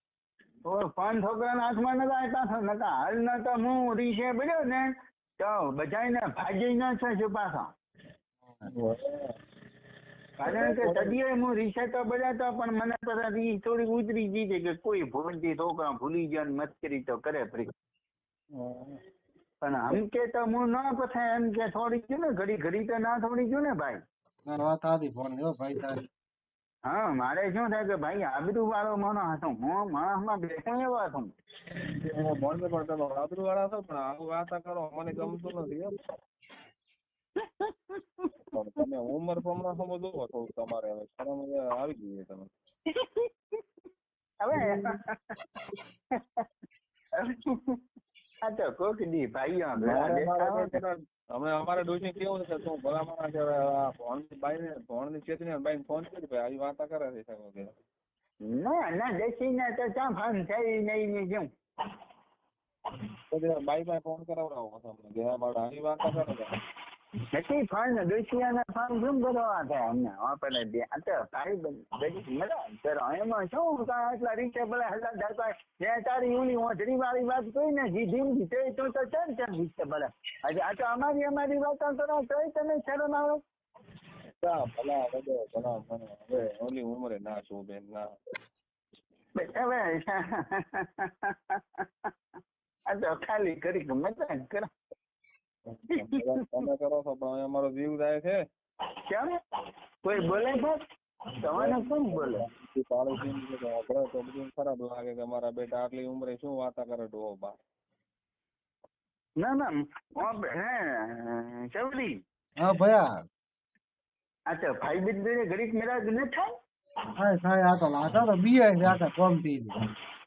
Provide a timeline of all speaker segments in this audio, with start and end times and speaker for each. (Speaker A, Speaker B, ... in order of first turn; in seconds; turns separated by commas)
Speaker A: 0.7-7.7, Speaker B: 8.4-8.7, Speaker C: 8.7-9.3, Speaker C: 10.4-11.2, Speaker A: 10.4-17.7, Speaker C: 18.5-19.0, Speaker A: 19.6-24.0, Speaker B: 24.5-26.1, Speaker A: 26.9-31.3, Speaker C: 31.8-35.9, Speaker A: 37.4-38.3, Speaker C: 38.5-42.5, Speaker A: 42.9-43.3, Speaker A: 44.4-45.0, Speaker A: 46.1-46.4, Speaker A: 47.1-47.8, Speaker A: 48.4-50.8, Speaker C: 49.8-57.7, Speaker A: 58.5-61.5, Speaker C: 63.3-66.5, Speaker A: 67.3-83.4, Speaker C: 84.4-88.1, Speaker A: 89.4-92.1, Speaker A: 92.9-94.7, Speaker C: 95.7-98.4, Speaker A: 95.9-96.6, Speaker A: 99.1-99.3, Speaker A: 100.0-100.8, Speaker A: 101.4-102.4, Speaker C: 101.5-107.5, Speaker A: 109.4-112.1, Speaker B: 112.6-113.1, Speaker A: 114.5-116.5, Speaker B: 117.2-119.7